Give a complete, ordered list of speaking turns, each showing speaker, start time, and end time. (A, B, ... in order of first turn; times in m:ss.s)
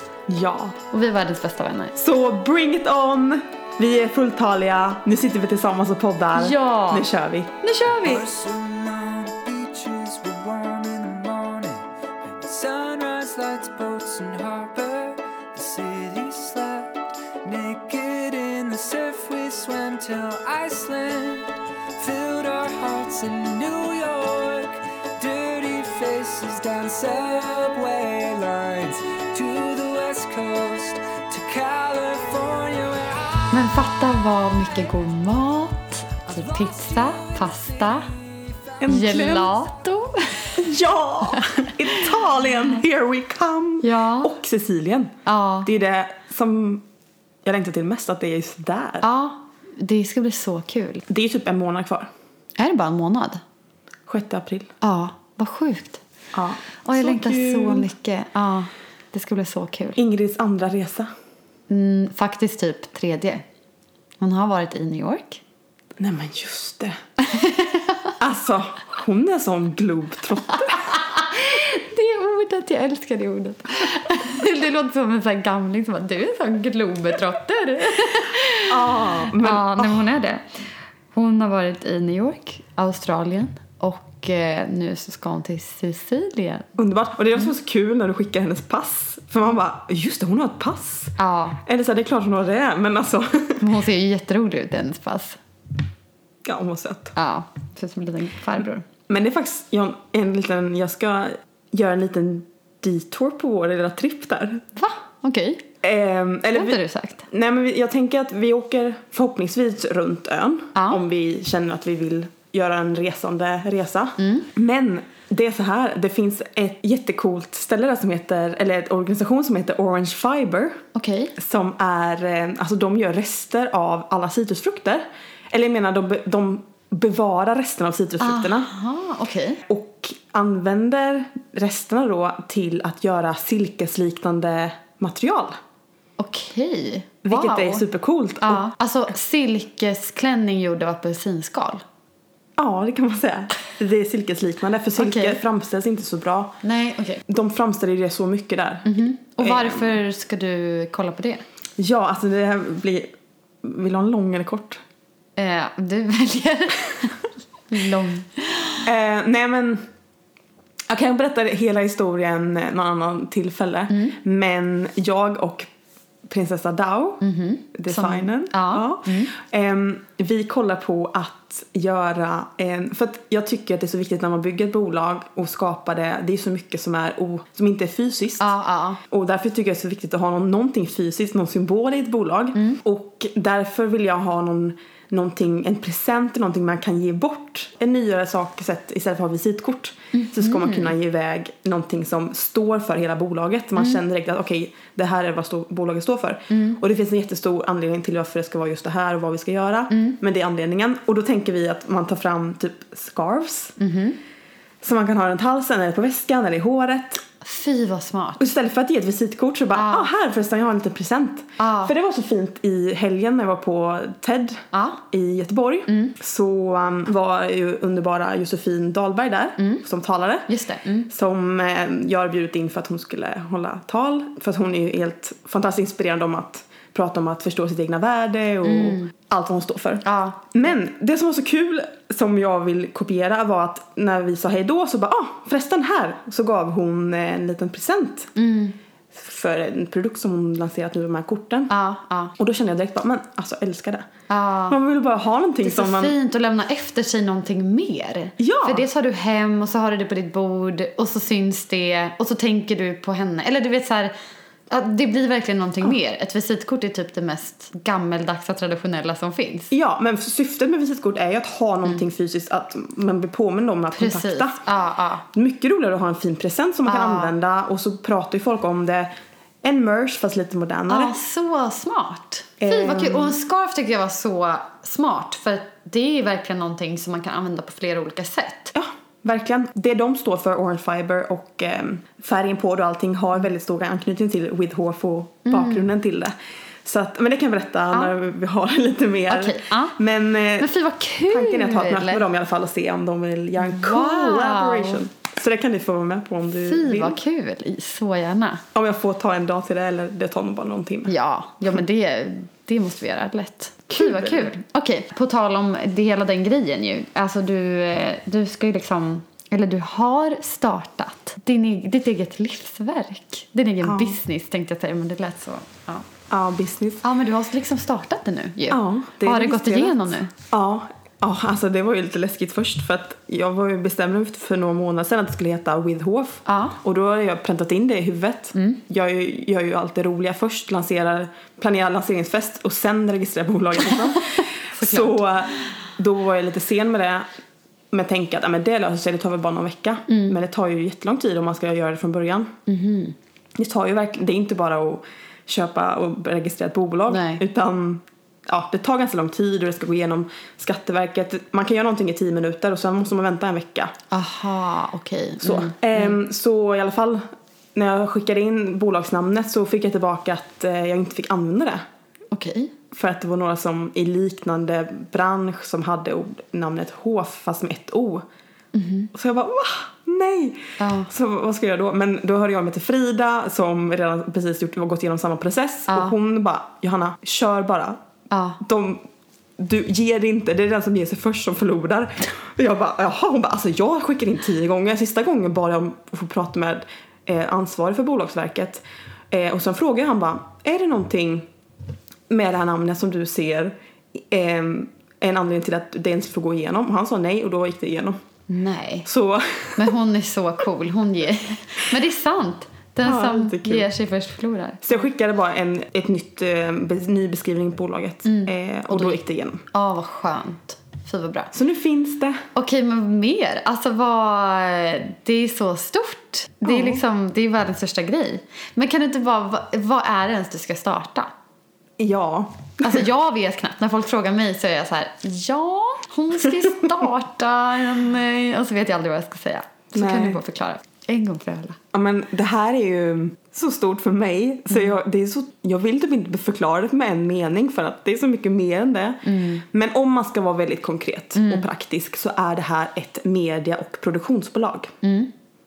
0:00.3-0:00.8 A
0:00.9-0:01.9 B
0:02.0-0:07.6 A
0:06.4-0:07.1 B
0:07.6-0:08.3 B
0:08.0-0:16.9 C
0:17.4-0:33.5 C
0:33.5-0:38.1 B
0:36.3-0:39.1 C
0:38.8-0:39.5 A
0:38.9-0:40.6 B
0:40.6-0:46.8 A
0:41.3-0:41.7 B
0:43.8-0:44.3 B
0:45.3-0:45.7 B
0:47.4-0:49.1 A
0:49.0-0:51.0 B
0:51.1-0:52.1 A
0:52.6-0:53.4 B
0:54.1-0:54.7 A
0:54.8-0:56.0 B
0:56.3-0:57.9 A
0:56.8-1:00.0 B
1:00.0-1:01.1 A
1:01.7-1:03.4 B
1:04.2-1:05.4 B
1:06.0-1:07.0 A
1:07.2-1:08.1 B
1:08.2-1:10.9 A
1:10.7-1:26.7 B
1:18.7-1:20.0 A
1:26.8-1:33.6 A
1:31.2-1:31.6 B
1:33.6-1:35.4 B
1:36.4-1:37.2 A
1:37.2-1:38.9 B
1:39.1-1:44.6 A
1:44.8-1:45.6 B
1:45.8-2:00.8 A
1:46.5-1:47.2 B
1:50.8-1:51.0 B
1:54.2-1:54.5 B
2:01.0-2:01.4 B
2:01.4-2:08.7 A
2:08.2-2:09.6 B
2:09.7-2:15.6 A
2:16.2-2:17.8 B
2:17.2-2:18.6 A
2:18.4-2:21.8 B
2:22.6-2:26.6 A
2:25.0-2:25.4 B
2:26.6-2:27.2 B
2:27.3-2:30.0 A
2:28.9-2:31.4 B
2:31.8-2:33.1 A
2:33.6-2:34.8 A
2:35.4-2:37.1 B
2:37.7-2:38.8 B
2:38.8-2:39.8 A
2:40.9-2:45.7 A
2:43.9-2:44.2 B
2:46.3-2:47.2 A
2:47.2-2:49.3 B
2:47.7-2:58.5 A
2:58.4-2:59.0 B
2:59.1-3:23.8 A
3:10.1-3:10.9 B
3:16.5-3:16.8 B
3:19.9-3:20.2 B
3:23.8-3:24.2 B
3:24.8-3:27.2 A
3:27.4-3:28.4 B
3:28.4-3:40.5 A
3:29.7-3:30.1 B
3:31.6-3:31.9 B
3:34.7-3:35.0 B
3:35.9-3:36.1 B
3:40.5-3:41.1 B
3:41.1-3:58.3 A
3:48.6-3:49.1 B
3:50.0-3:50.5 B
3:58.4-3:58.8 B
3:59.1-4:01.7 A
4:01.7-4:02.3 B
4:02.4-4:04.1 A
4:04.3-4:04.8 B
4:04.7-4:06.1 A
4:05.6-4:14.1 B
4:08.4-4:08.8 A
4:14.7-4:19.7 B
4:19.7-4:24.6 A
4:23.9-4:25.2 B
4:25.3-4:29.1 A
4:26.8-4:27.3 B
4:29.6-4:31.2 A
4:30.9-4:38.7 B
4:32.6-4:33.4 A
4:38.7-4:46.3 A
4:45.5-4:45.9 B
4:46.8-4:50.7 A
4:49.3-4:50.0 B
4:50.6-4:52.2 B
4:51.3-4:57.2 A
4:53.6-4:55.0 B
4:56.6-4:58.6 B
4:58.7-5:01.1 A
5:01.1-5:16.1 B
5:03.9-5:04.5 A
5:13.8-5:14.2 A
5:16.3-5:17.0 A
5:17.0-5:20.3 B
5:18.7-5:37.3 A
5:26.5-5:26.8 B
5:28.6-5:28.8 B
5:33.9-5:34.2 B
5:34.8-5:35.2 B
5:37.9-5:42.5 A
5:40.1-5:40.4 B
5:42.7-5:43.2 B
5:43.6-5:53.9 A
5:47.1-5:47.4 B
5:54.1-5:56.2 B
5:55.4-6:01.8 A
6:02.3-6:02.7 B
6:02.9-6:08.2 A
6:08.7-6:09.1 B
6:09.1-6:18.0 A
6:10.8-6:11.1 B
6:15.9-6:16.2 B
6:18.3-6:18.6 B
6:18.6-6:19.0 A
6:19.6-6:31.5 A
6:32.3-6:38.2 A
6:38.5-6:39.1 B
6:39.1-6:39.9 A
6:39.8-6:45.0 B
6:43.0-6:43.9 A
6:44.8-6:49.6 A
6:48.2-6:49.2 B
6:49.7-6:51.5 B
6:51.5-6:52.4 A
6:52.6-7:01.3 B
6:56.6-6:57.0 A
7:02.0-7:03.0 A
7:02.8-7:11.8 B
7:10.0-7:10.4 A
7:11.9-7:25.0 A
7:19.2-7:19.6 B
7:21.3-7:21.7 B
7:25.0-7:25.3 B